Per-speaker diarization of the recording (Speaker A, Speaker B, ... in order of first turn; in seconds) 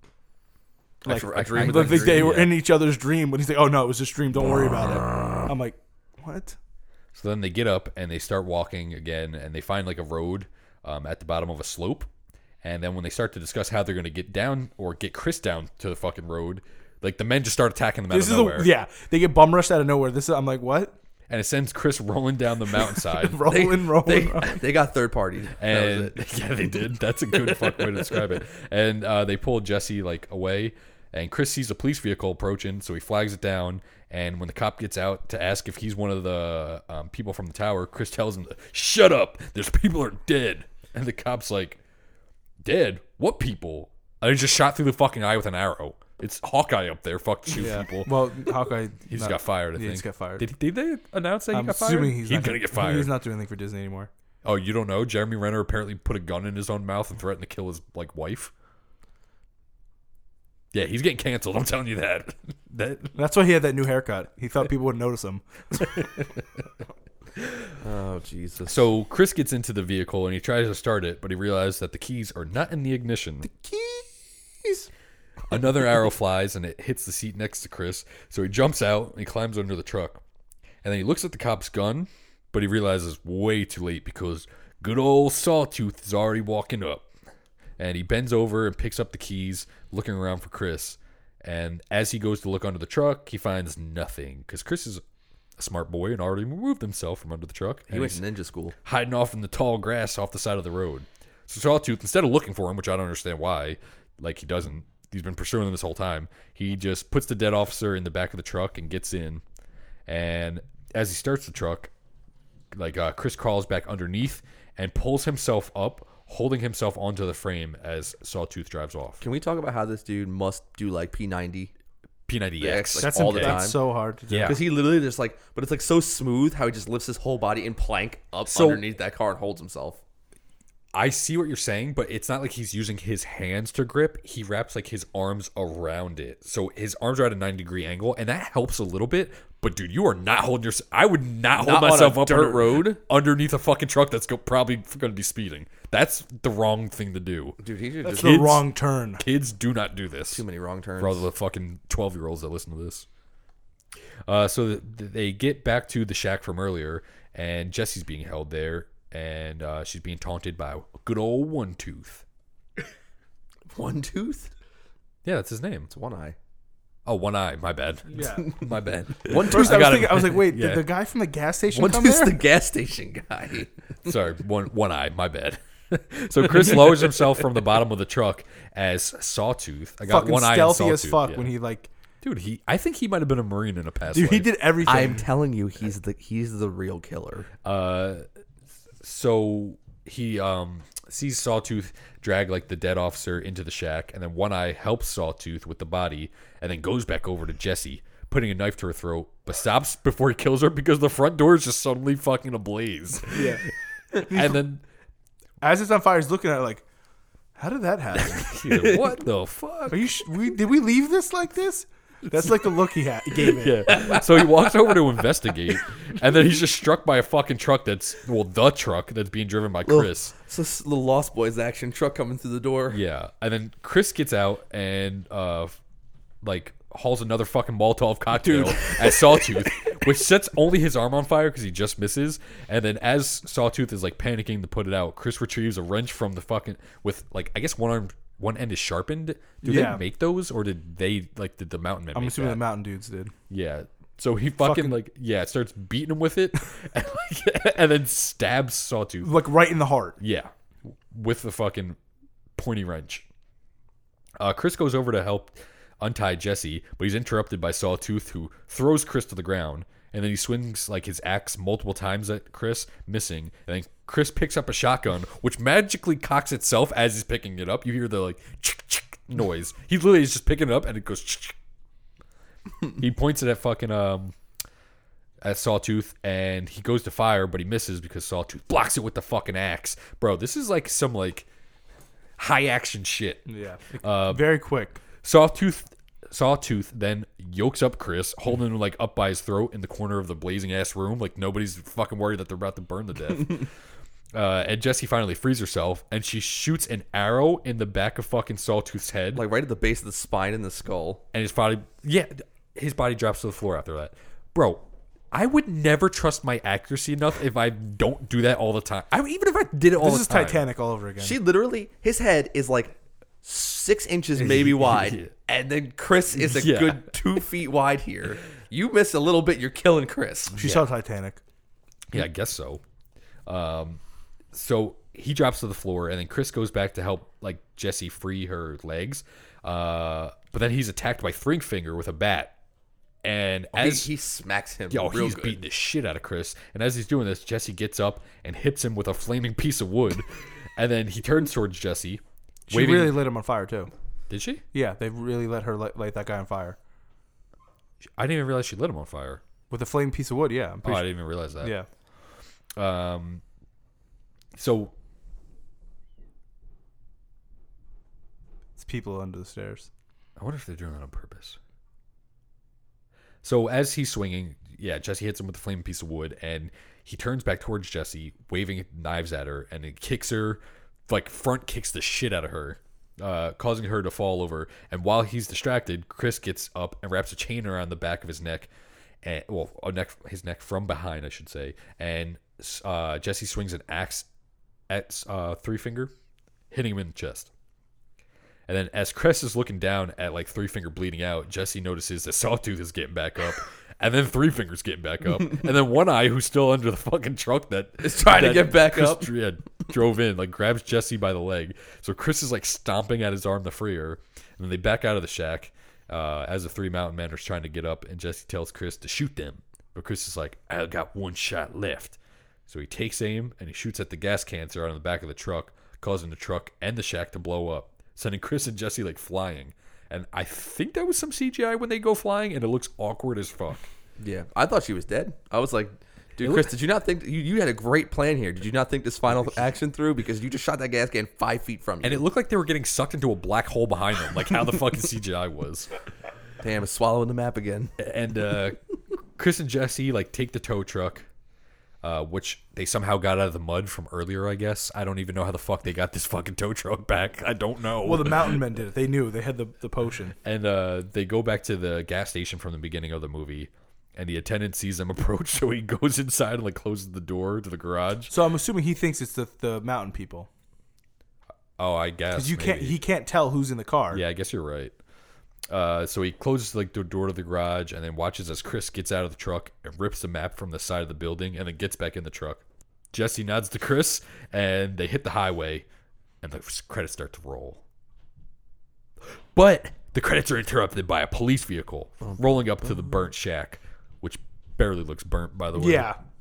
Speaker A: 1.0-2.4, 23.5-26.3, 27.3-28.3, 67.8-68.9, 97.9-98.8, 119.2-121.7, 122.6-123.8, 124.4-130.0, 141.6-143.0, 147.6-148.5, 150.3-151.3, 163.7-164.5, 165.9-166.4, 169.2-170.2, 171.7-174.1, 176.9-177.3, 184.8-187.5, 214.0-214.6, 219.9-223.0, 228.4-229.9, 299.3-301.2, 311.2-320.6, 333.7-335.6, 398.0-399.3, 424.2-432.2, 436.6-437.9
Speaker B: 1.1-6.6, 18.1-20.9, 23.2-24.6, 47.5-50.5, 51.5-54.1, 63.1-65.9, 73.5-74.9, 123.0-124.6, 148.0-149.2, 168.1-168.5, 169.5-172.4, 180.1-181.9, 184.1-185.3, 203.3-203.6, 204.2-204.6, 205.6-206.8, 207.6-208.6, 209.9-214.0, 239.6-240.0, 242.1-243.3, 244.6-245.0, 249.2-250.2, 283.5-285.0, 310.0-311.4, 320.6-321.4, 342.7-343.9, 344.7-346.8, 349.7-351.9, 358.8-359.9, 448.0-450.4, 458.3-460.5, 462.4-464.2, 485.8-486.2
Speaker C: 1.2-2.6, 7.1-12.1, 12.6-18.7, 21.3-23.5, 25.6-41.8, 42.6-48.5, 49.1-53.1, 54.4-58.5, 60.7-63.1, 68.7-73.5, 75.5-80.2, 80.8-87.0, 87.8-95.0, 95.6-98.2, 98.8-109.4, 110.1-111.9, 112.7-119.2, 122.3-123.7, 124.3-124.6, 128.5-128.8, 130.9-147.6, 148.2-148.6, 149.2-150.4, 151.0-153.1, 154.3-162.2, 165.2-165.9, 167.1-170.9, 174.1-181.5, 182.2-184.9, 187.6-188.2, 189.0-203.6, 204.2-204.8, 208.1-210.2, 213.4-220.3, 222.9-225.8, 226.4-242.6, 243.5-249.4, 250.2-250.5, 251.1-252.0, 252.6-253.2, 254.4-271.6, 273.0-274.4, 275.4-281.5, 282.4-283.5, 284.0-284.6, 285.2-293.7, 294.3-299.4, 301.3-310.6, 314.4-315.3, 316.4-317.2, 320.6-320.9, 322.1-322.8, 323.5-324.0, 324.5-332.5, 333.2-334.1, 334.9-343.2, 344.3-344.6, 348.2-349.4, 350.9-351.8, 352.8-353.4, 354.6-354.9, 360.4-361.6, 363.4-378.7, 379.2-384.3, 384.9-386.1, 386.7-387.5, 388.7-423.9, 426.4-426.7, 432.0-435.9, 438.0-438.8, 439.4-441.3, 442.0-448.6, 450.4-458.3, 461.8-463.0, 464.1-464.9, 465.7-475.9, 476.4-477.8, 479.5-486.1